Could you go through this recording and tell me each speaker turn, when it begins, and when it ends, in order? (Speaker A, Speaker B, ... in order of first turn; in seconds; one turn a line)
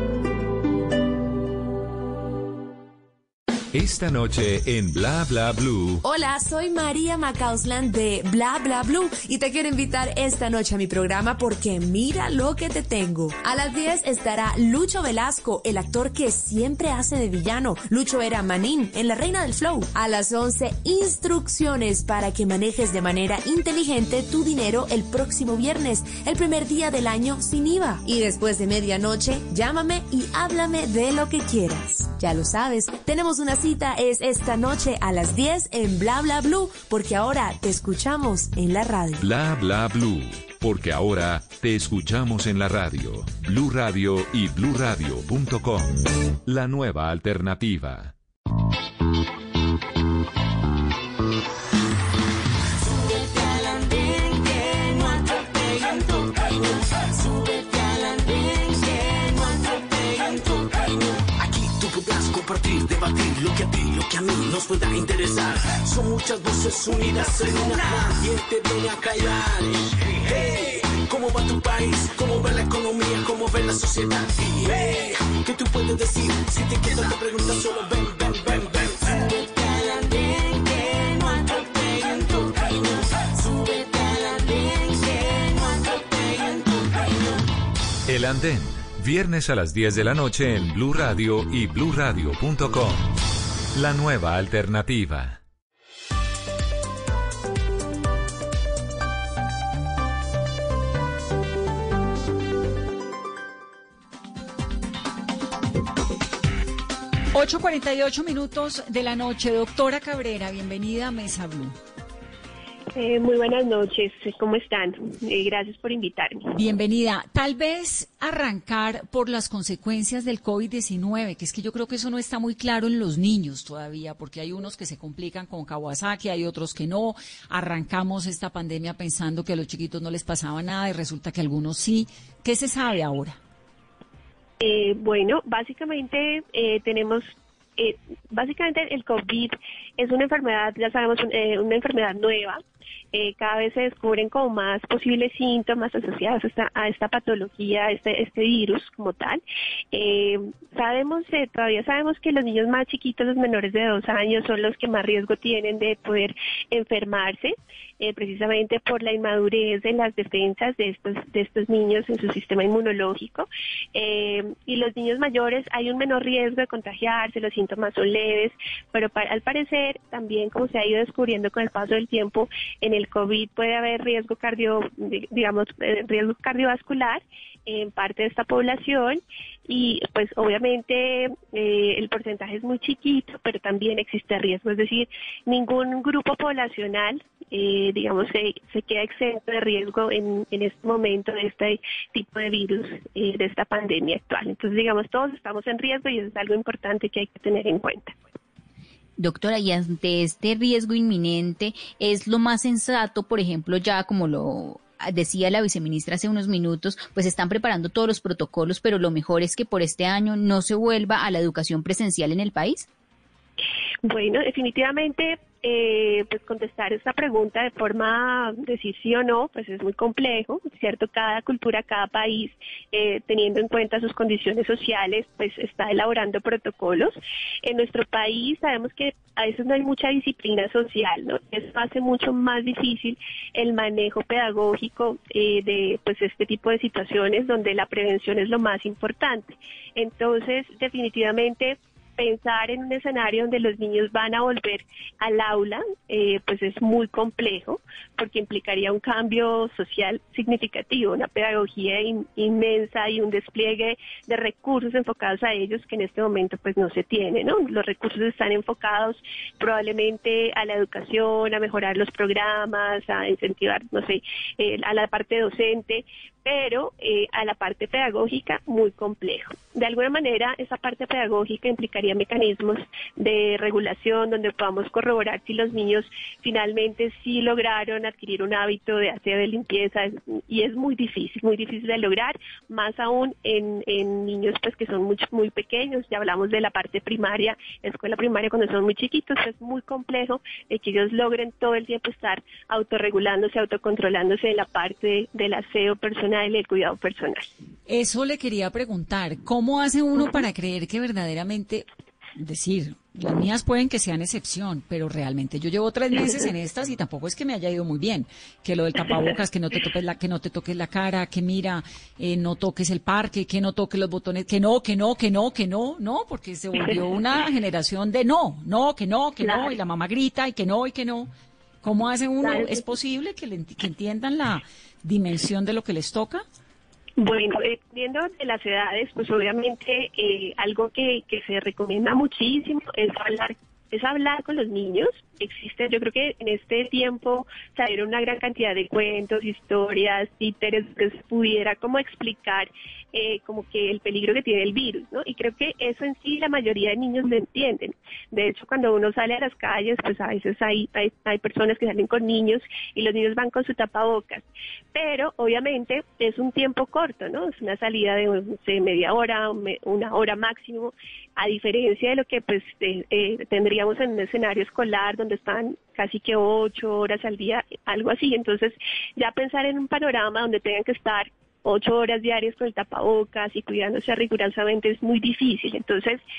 Speaker A: 3.7-6.0
Speaker B: 6.0-39.2
Speaker A: 39.2-48.1
Speaker C: 53.0-86.8
Speaker A: 88.0-93.1
Speaker A: 93.7-95.4
Speaker D: 107.3-111.8
Speaker E: 112.9-116.5
Speaker D: 116.5-133.4
Speaker E: 134.6-142.6
Speaker E: 143.1-149.4
Speaker E: 149.9-198.2
Speaker F: 199.2-212.9
Speaker E: 214.0-297.5
Speaker D: 297.9-301.8
Speaker D: 302.4-321.3
Speaker E: 319.4-319.8
Speaker D: 321.8-326.4
Speaker E: 322.4-322.9
Speaker E: 327.2-376.2